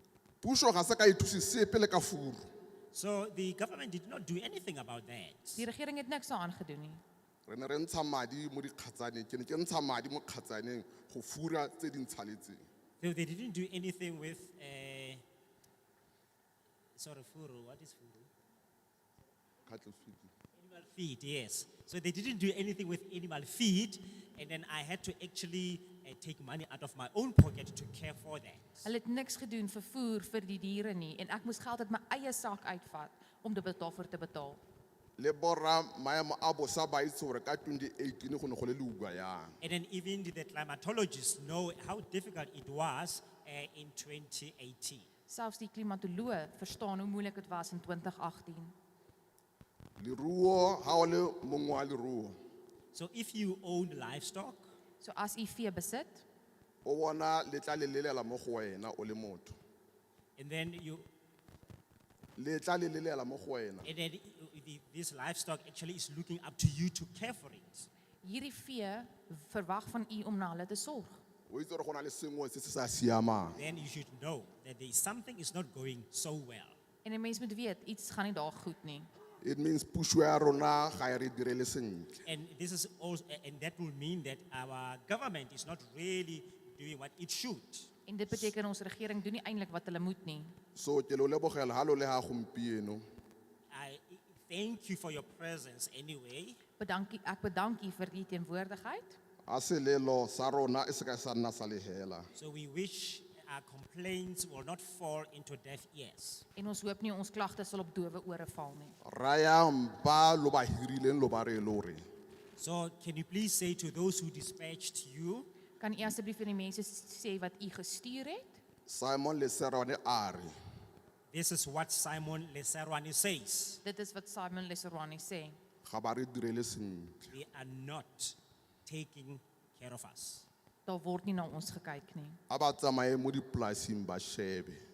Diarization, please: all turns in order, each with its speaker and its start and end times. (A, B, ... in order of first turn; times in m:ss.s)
0:00.4-0:02.5 A
0:02.9-0:05.7 B
0:05.6-0:07.0 C
0:07.5-0:12.6 A
0:13.0-0:15.2 B
0:17.0-0:18.3 B
0:19.7-0:20.3 A
0:20.6-0:28.9 B
0:28.8-0:34.6 C
0:35.2-0:39.6 A
0:39.6-0:45.1 B
0:45.3-0:48.7 C
0:50.0-0:52.4 A
0:52.9-0:54.7 B
0:55.0-0:56.2 C
0:56.8-0:59.5 A
1:00.4-1:01.1 B
1:02.4-1:03.9 A
1:03.8-1:07.9 B
1:08.2-1:11.2 C
1:11.5-1:13.6 A
1:13.6-1:16.8 B
1:17.0-1:19.1 C
1:19.4-1:22.2 A
1:22.2-1:27.9 B
1:28.1-1:30.5 C
1:30.8-1:33.0 A
1:33.7-1:36.6 B
1:36.8-1:39.2 C
1:39.5-1:42.3 A
1:42.4-1:46.4 B
1:46.6-1:49.0 C
1:49.0-1:52.0 A
1:52.6-1:55.5 B
1:55.8-1:58.6 C
1:58.9-2:00.5 A
2:01.3-2:03.8 B
2:03.8-2:05.6 C
2:05.8-2:07.3 A
2:07.3-2:10.5 B
2:10.9-2:12.4 C
2:12.5-2:14.8 A